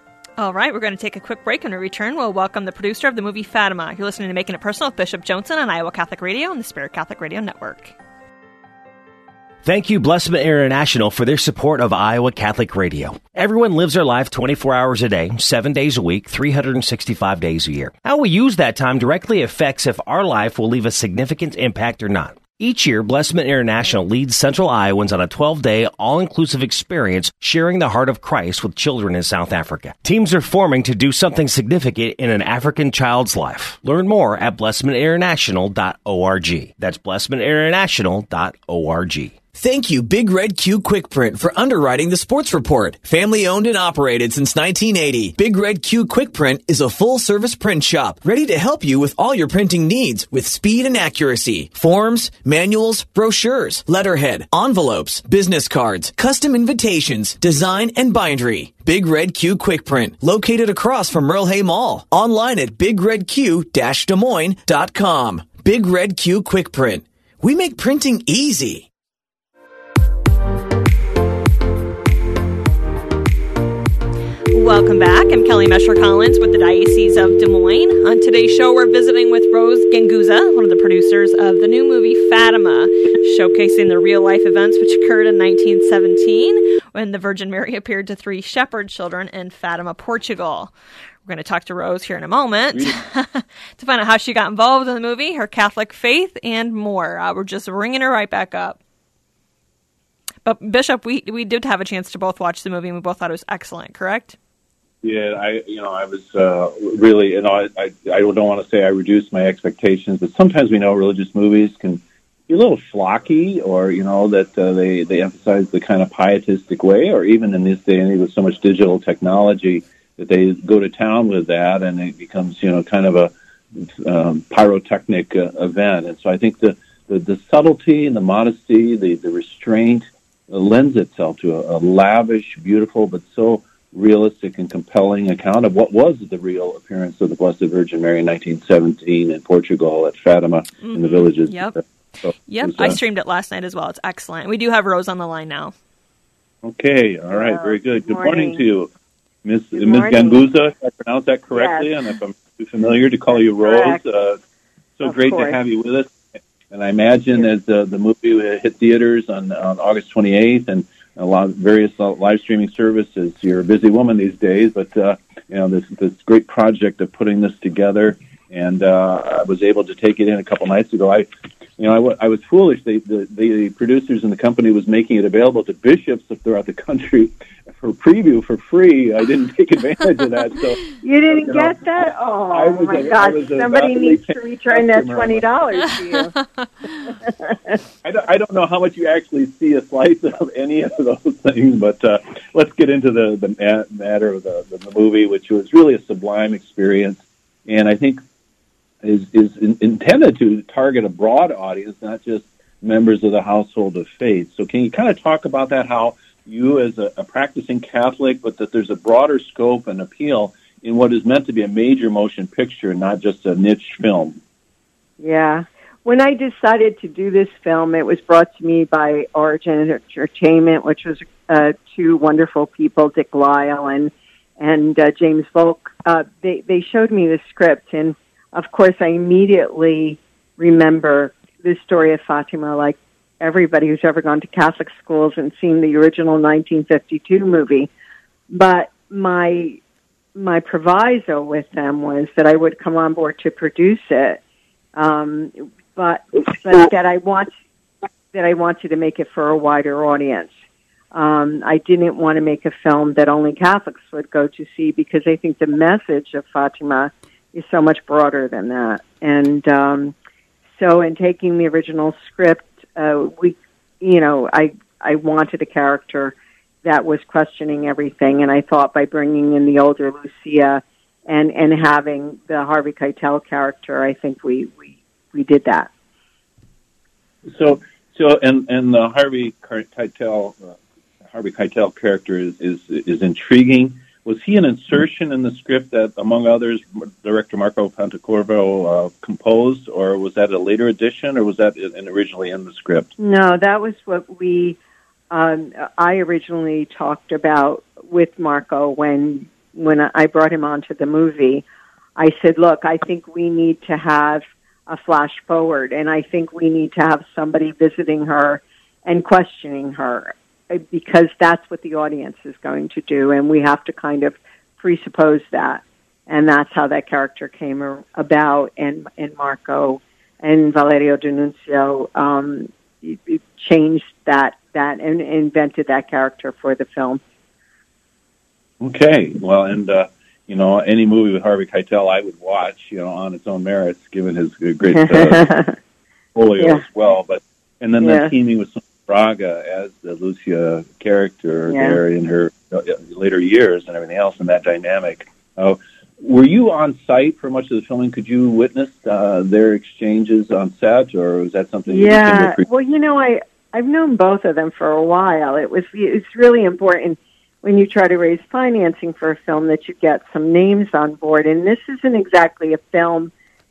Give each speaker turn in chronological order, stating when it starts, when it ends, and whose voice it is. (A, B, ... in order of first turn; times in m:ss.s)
0:00.4-0:07.9 A
0:09.6-0:39.4 B
0:39.5-1:08.9 C
1:14.5-1:30.7 A
1:31.2-1:38.8 A
1:40.4-1:44.4 A
1:45.0-2:23.0 D
2:20.8-2:21.8 A
2:22.5-2:25.7 A
2:26.6-2:28.9 D
2:27.3-2:28.6 E
2:29.4-2:34.4 D
2:29.7-2:30.4 E
2:31.5-2:31.9 E
2:33.6-2:34.0 E
2:35.0-2:51.3 D
2:35.0-2:35.6 E
2:51.8-3:02.0 D
3:01.0-3:06.3 E
3:02.5-3:05.5 D
3:07.2-3:07.8 E
3:08.0-3:18.2 D
3:19.0-3:34.4 D
3:35.2-3:57.9 E
3:58.5-3:59.8 E
4:00.4-4:04.4 E
4:05.0-4:07.5 E
4:08.3-4:10.5 E
4:11.1-4:20.1 E
4:20.8-4:35.9 E
4:37.4-4:53.1 D
4:53.2-4:54.8 E
4:55.3-5:01.6 E
5:02.2-5:27.2 E
5:28.8-5:35.5 D
5:34.9-5:35.8 E
5:36.3-5:52.7 D
5:36.6-5:36.8 E
5:38.0-5:38.3 E
5:41.7-5:42.0 E
5:51.9-6:03.3 E